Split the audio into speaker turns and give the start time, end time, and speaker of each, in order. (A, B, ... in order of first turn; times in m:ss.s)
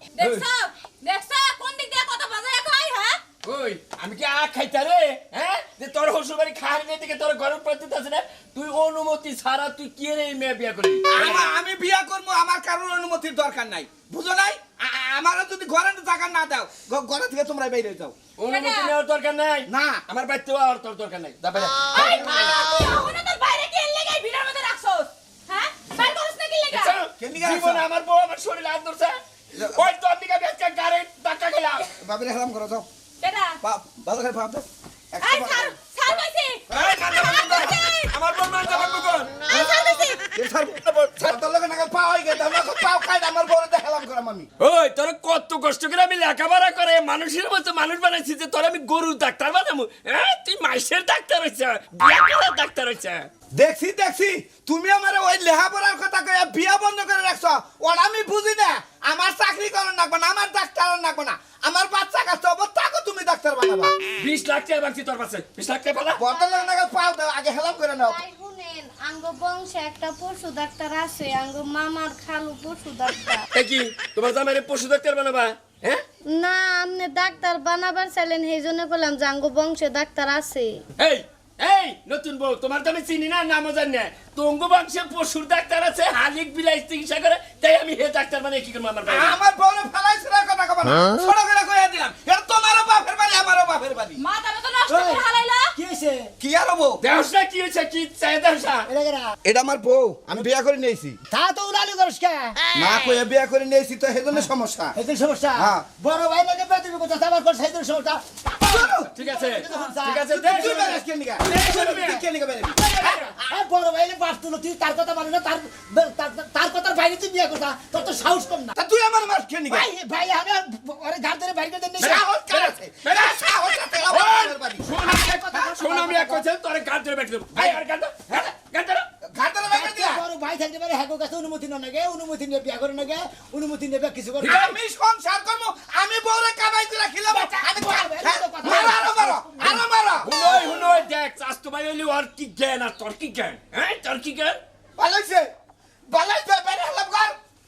0:00.2-0:00.5 A
0:00.2-0:03.2 B
0:03.4-0:11.5 A
0:11.1-0:18.2 C
0:18.4-0:22.5 A
0:18.5-0:18.8 B
0:19.7-0:20.0 C
0:21.9-0:22.5 C
0:22.0-0:24.9 B
0:25.5-0:26.1 B
0:26.7-0:29.2 A
0:27.2-0:27.9 C
0:29.5-0:29.9 C
0:29.7-0:31.9 A
0:32.0-0:32.9 C
0:33.6-0:36.2 C
0:35.2-0:38.1 B
0:36.7-0:37.8 C
0:36.8-0:39.5 A
0:38.6-0:44.5 C
0:39.5-0:40.2 B
0:44.6-0:53.3 A
0:53.5-1:03.9 C
1:04.2-1:06.2 A
1:06.2-1:08.2 C
1:06.3-1:06.8 D
1:07.9-1:13.5 D
1:13.5-1:16.0 A
1:16.3-1:20.8 D
1:21.0-1:29.4 A
1:29.1-1:34.2 C
1:34.2-1:35.6 B
1:34.9-1:35.2 E
1:35.8-1:36.3 E
1:36.4-1:37.0 C
1:37.0-1:38.9 A
1:38.9-1:39.4 E
1:39.4-1:41.2 C
1:41.3-1:42.6 E
1:42.8-1:44.9 C
1:44.3-1:50.9 E
1:45.6-1:45.8 C
1:48.6-1:49.1 C
1:49.2-1:52.2 A
1:50.3-1:52.9 C
1:52.8-1:58.8 E
1:53.0-1:53.3 A
1:58.8-1:59.9 C
1:59.7-2:02.2 E
2:02.0-2:04.9 C
2:02.0-2:09.1 A
2:05.0-2:06.4 E
2:07.5-2:08.5 C
2:09.2-2:10.2 C
2:09.7-2:14.8 E
2:14.4-2:20.6 C
2:17.3-2:19.8 E
2:20.2-2:24.6 A
2:25.0-2:25.5 C
2:26.1-2:27.4 C